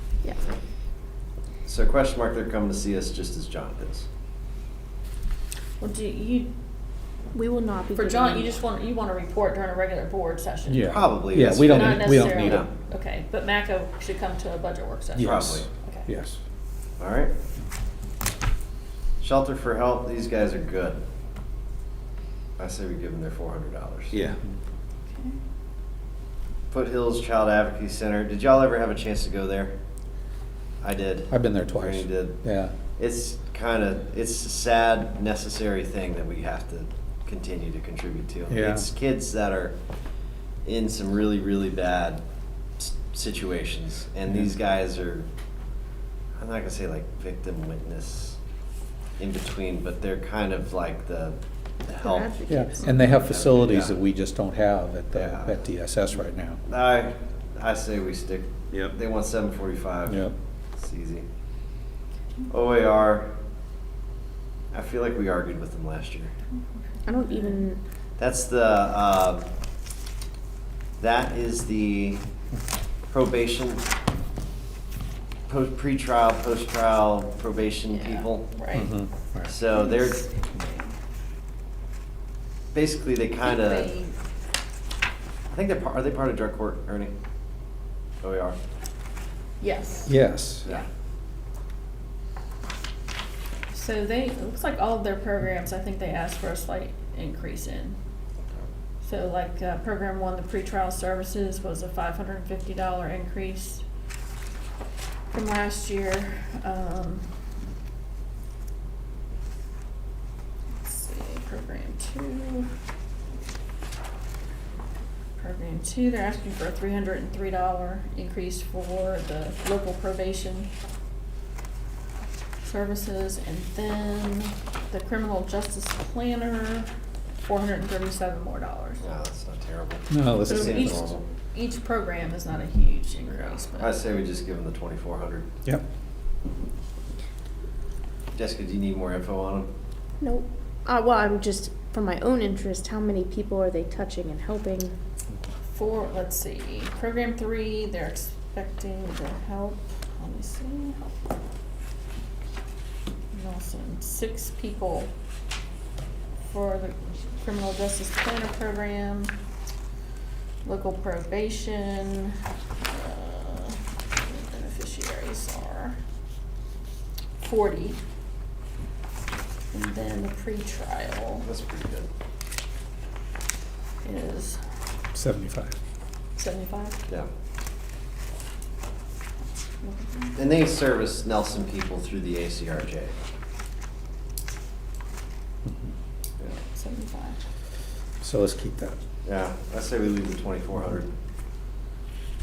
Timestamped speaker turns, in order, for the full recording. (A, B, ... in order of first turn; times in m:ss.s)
0:01.6-0:04.1 A
0:05.8-0:06.5 B
0:07.3-0:08.5 C
0:08.0-0:10.9 B
0:10.7-0:12.7 D
0:10.8-0:12.7 A
0:11.6-0:16.1 B
0:15.2-0:15.7 A
0:15.2-0:16.4 D
0:17.0-0:17.3 A
0:19.2-0:21.0 A
0:22.6-0:24.2 A
0:24.1-0:24.5 D
0:26.7-0:29.7 A
0:30.8-0:32.4 A
0:31.3-0:32.7 D
0:33.0-0:39.7 A
0:38.5-0:38.9 D
0:40.6-0:42.2 A
0:42.8-0:45.3 A
0:46.4-0:48.4 A
0:49.2-0:51.4 A
0:51.9-0:52.3 A
0:52.0-0:53.2 C
0:52.5-0:56.6 D
0:53.1-0:53.9 A
0:55.1-0:55.5 A
0:56.6-1:00.2 A
1:00.1-1:00.3 D
1:00.8-1:01.3 A
1:02.5-1:03.3 A
1:04.7-1:06.3 A
1:06.6-1:07.6 B
1:07.1-1:07.8 C
1:08.2-1:09.4 A
1:11.0-1:12.2 A
1:13.1-1:13.8 A
1:15.5-1:18.5 A
1:17.9-1:18.9 B
1:18.7-1:19.5 D
1:19.5-1:20.2 A
1:19.7-1:20.9 B
1:22.7-1:23.9 A
1:23.4-1:24.1 B
1:25.5-1:27.1 A
1:28.2-1:28.6 A
1:29.6-1:30.9 B
1:30.1-1:30.6 D
1:33.7-1:38.0 B
1:39.0-1:43.8 B
1:45.3-1:47.3 B
1:50.8-1:52.7 B
1:55.4-2:00.7 B
2:02.6-2:06.9 B
2:07.5-2:09.0 B
2:09.0-2:11.2 A
2:10.1-2:11.1 D
2:10.5-2:11.0 B
2:11.5-2:13.9 B
2:13.7-2:15.5 A
2:18.4-2:19.7 A
2:20.2-2:24.9 C
2:25.7-2:31.2 B
2:33.3-2:35.1 B
2:36.5-2:39.3 B
2:40.6-2:46.0 B
2:47.4-2:48.0 B
2:49.7-2:51.5 B
2:51.4-2:52.1 A
2:54.0-2:54.6 B
2:55.1-2:55.8 D
2:56.4-2:57.0 B
2:59.8-3:00.4 B
3:00.4-3:03.2 A
3:05.7-3:05.9 D
3:06.7-3:07.4 B
3:08.2-3:09.0 D
3:09.2-3:11.1 A